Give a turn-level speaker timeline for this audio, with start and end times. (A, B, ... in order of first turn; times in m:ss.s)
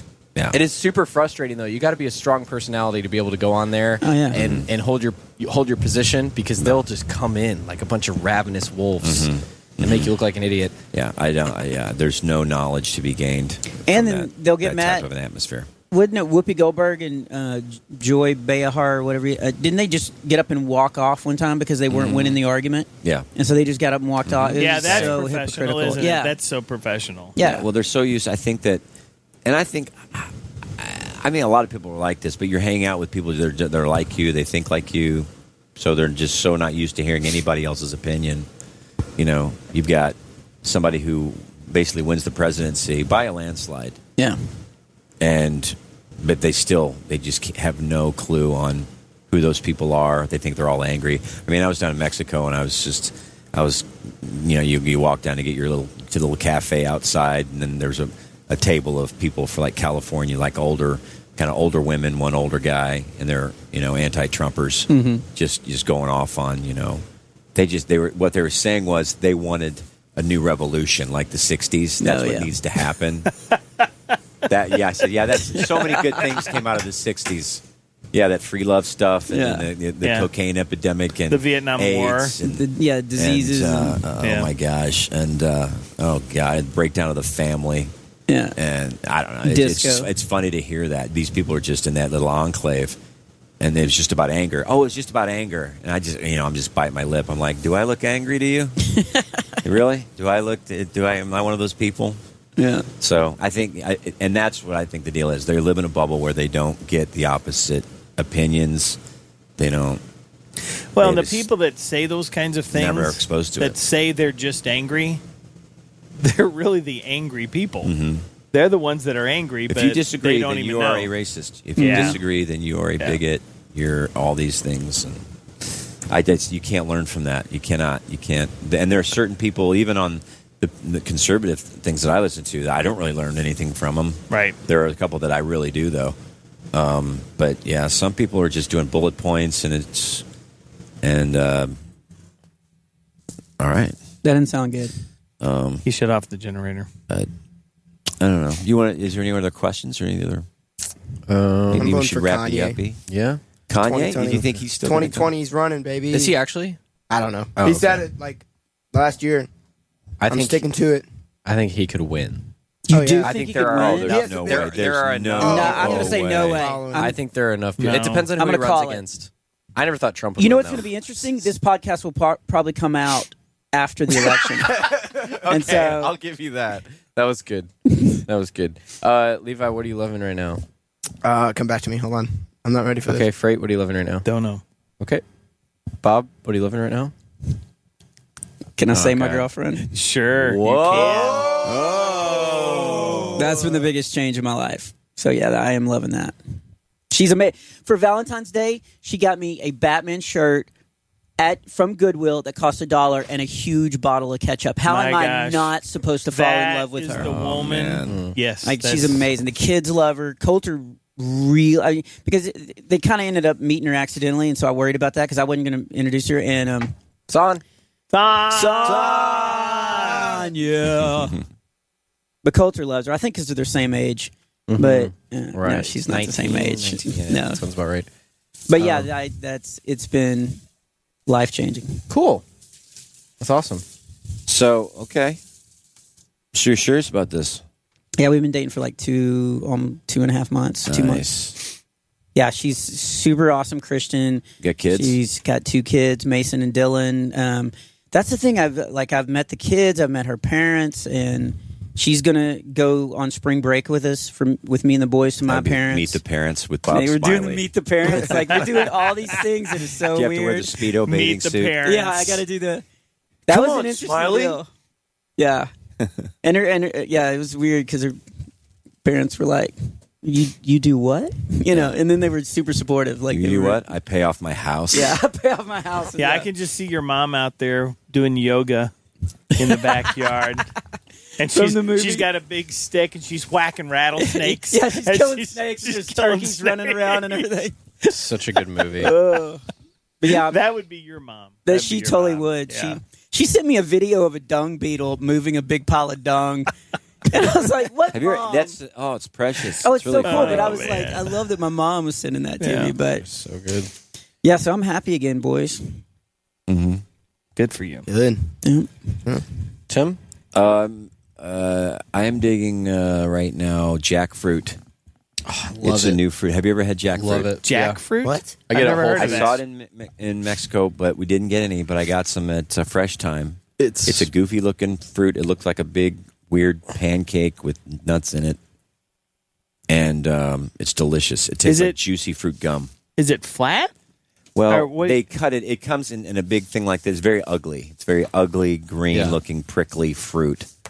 0:00.5-0:10.8 A
0:04.0-0:04.4 B
0:04.3-0:04.7 C
0:09.0-0:10.1 C
0:10.9-0:15.7 C
0:13.8-0:15.1 B
0:15.9-0:26.3 B
0:21.9-0:22.4 C
0:24.2-0:25.2 C
0:24.6-0:27.4 D
0:27.4-0:27.6 B
0:27.4-0:28.8 C
0:29.4-0:38.5 C
0:39.2-0:44.0 C
0:45.2-1:07.0 C
1:04.9-1:05.2 B
1:07.5-1:13.3 C
1:12.0-1:12.5 B
1:14.5-1:27.9 C
1:15.5-1:16.2 B
1:19.3-1:19.7 B
1:20.0-1:20.3 D
1:21.3-1:22.4 D
1:22.4-1:24.0 B
1:24.2-1:24.5 D
1:28.3-1:28.5 B
1:28.6-1:33.0 C
1:29.4-1:30.1 B
1:33.6-1:38.8 C
1:39.0-1:39.6 B
1:39.6-1:42.2 C
1:42.6-1:42.9 B
1:43.0-1:49.0 C
1:49.6-1:50.0 C
1:50.9-1:55.2 D
1:51.0-1:51.5 C
1:52.7-1:53.8 C
1:56.2-1:57.9 D
1:57.8-1:58.2 C
1:58.5-2:01.1 D
1:59.7-2:05.2 C
2:01.8-2:02.2 B
2:01.8-2:02.2 D
2:06.1-2:16.2 C
2:14.3-2:14.6 D
2:16.7-2:20.2 C
2:21.0-2:21.8 C
2:23.6-2:24.0 C
2:24.2-2:24.9 B
2:25.4-2:25.8 C
2:25.8-2:26.9 D
2:28.2-2:30.4 C
2:31.3-2:32.0 A
2:31.7-2:33.0 C
2:31.7-2:32.8 E
2:33.1-2:33.4 A
2:33.7-2:35.3 C
2:33.8-2:36.3 E
2:36.1-2:36.8 A
2:37.1-2:39.5 E
2:37.6-2:38.0 A
2:40.2-2:40.7 A
2:40.3-2:41.1 E
2:41.4-2:42.5 A
2:42.9-2:44.2 B
2:42.9-2:47.2 E
2:43.2-2:50.9 A
2:44.0-2:46.7 C
2:45.4-2:47.2 B
2:47.8-2:48.3 D
2:48.4-2:49.0 B
2:50.4-2:54.8 B
2:54.8-3:00.6 A
2:55.4-2:56.2 B
3:01.2-3:03.3 E
3:03.0-3:04.3 A
3:04.2-3:04.6 D
3:06.0-3:07.1 A
3:08.8-3:09.9 B
3:08.9-3:09.4 A
3:09.9-3:11.6 D
3:10.4-3:13.5 C
3:11.4-3:13.2 E
3:13.4-3:16.4 B
3:17.1-3:20.7 B
3:21.4-3:27.3 B
3:24.8-3:29.2 D
3:27.1-3:28.2 C
3:28.0-3:28.4 A
3:28.6-3:36.9 B
3:37.3-3:37.6 A
3:38.1-3:40.4 D
3:38.5-3:41.4 B
3:39.8-3:40.0 E
3:42.4-3:47.6 B
3:44.7-3:48.1 A
3:48.7-3:50.6 B
3:48.8-3:49.1 A
3:51.3-3:52.0 B
3:52.1-3:52.4 A
3:53.4-3:53.8 A
3:54.5-3:55.4 C
3:56.5-3:57.6 C
3:58.2-4:01.3 B
4:00.8-4:01.6 C
4:02.3-4:16.2 B
4:04.6-4:05.2 C
4:15.5-4:18.6 C
4:16.9-4:20.7 B
4:18.5-4:18.8 D
4:20.1-4:21.8 C
4:21.0-4:22.4 D
4:21.8-4:22.8 B
4:23.5-4:24.7 B
4:23.5-4:24.6 C
4:25.4-4:25.7 B
4:26.4-4:28.2 B
4:29.0-4:33.8 B
4:31.7-4:31.9 C
4:33.3-4:35.2 C
4:34.9-4:36.5 B
4:36.2-4:38.9 D
4:39.6-4:40.7 D
4:39.6-4:40.1 B
4:41.4-4:47.5 D
4:41.5-4:42.3 B
4:44.2-4:48.1 B
4:48.1-4:49.2 A
4:49.0-4:49.6 B
4:50.2-4:50.6 B
4:50.3-4:53.0 D
4:51.6-4:56.7 B
4:57.3-4:58.7 B
4:58.1-5:00.8 C
4:59.8-5:03.2 B
5:00.2-5:01.4 D
5:02.6-5:02.9 D
5:03.1-5:03.9 A
5:04.4-5:06.0 B
5:06.7-5:07.0 C
5:07.6-5:08.1 D
5:08.1-5:08.5 E
5:08.6-5:08.9 B
5:09.9-5:10.2 A
5:10.5-5:14.8 C
5:15.4-5:16.2 A
5:15.8-5:17.5 C
5:17.1-5:18.0 A
5:17.6-5:19.6 D
5:18.2-5:18.6 E
5:18.7-5:19.6 A
5:19.2-5:28.6 C
5:23.8-5:24.3 A
5:29.9-5:32.9 C
5:31.6-5:32.0 D
5:33.2-5:33.9 D
5:34.5-5:40.7 C
5:34.7-5:35.2 D
5:39.1-5:39.4 A